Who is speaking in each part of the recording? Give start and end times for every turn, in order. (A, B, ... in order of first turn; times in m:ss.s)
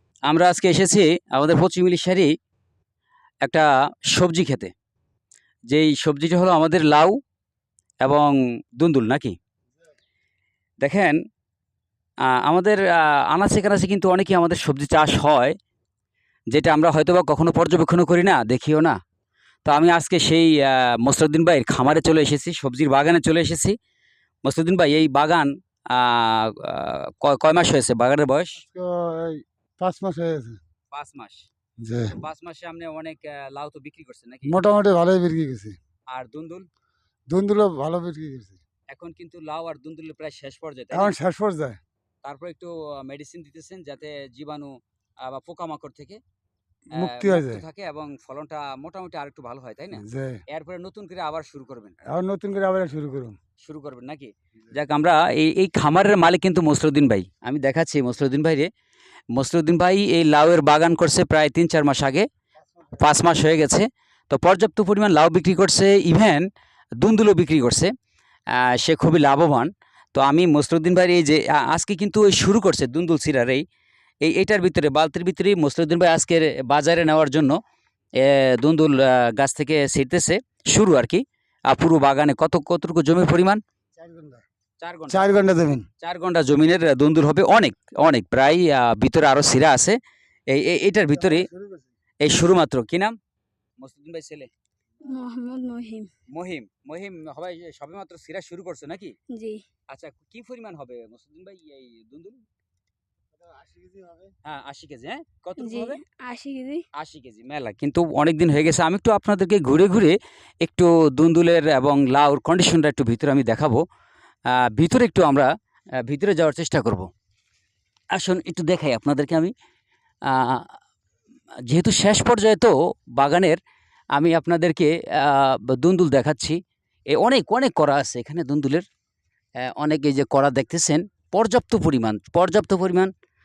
0:00.2-0:02.3 A
0:03.4-0:04.7 A
0:05.7-0:07.2 A
0:08.0-0:09.4 A
0:10.8-0:11.2 A
0:12.2-0:15.5 A
0:16.5-0:19.0 A
0:19.6-0:23.8 A
0:24.4-0:28.6 A
0:28.6-0:30.6 B
0:30.9-0:31.5 A
0:31.8-0:32.2 B
0:32.1-0:34.6 A
0:34.4-0:35.8 B
0:36.1-0:36.7 A
0:37.3-0:38.6 B
0:38.9-0:41.2 A
0:40.9-0:41.8 B
0:42.2-0:46.2 A
0:46.9-0:47.6 B
0:46.9-0:52.0 A
0:49.9-0:50.4 B
0:52.1-0:53.4 B
0:53.6-0:58.7 A
0:59.3-1:02.3 A
1:03.0-1:06.5 A
1:07.0-1:07.9 A
1:08.5-1:13.6 A
1:14.2-1:17.6 A
1:18.2-1:23.6 A
1:24.0-1:24.4 B
1:24.8-1:25.4 A
1:25.1-1:25.9 B
1:26.0-1:31.5 A
1:31.1-1:31.9 B
1:32.2-1:33.2 A
1:33.8-1:34.5 A
1:35.0-1:36.1 C
1:36.3-1:39.2 A
1:39.3-1:39.6 C
1:39.9-1:42.4 A
1:43.5-1:44.3 B
1:44.4-1:46.0 A
1:45.6-1:46.8 C
1:46.9-1:53.8 A
1:54.5-1:57.1 A
1:58.1-1:59.5 A
2:00.2-2:00.7 A
2:01.6-2:03.6 A
2:04.1-2:06.6 A
2:07.1-2:08.8 A
2:09.6-2:13.1 A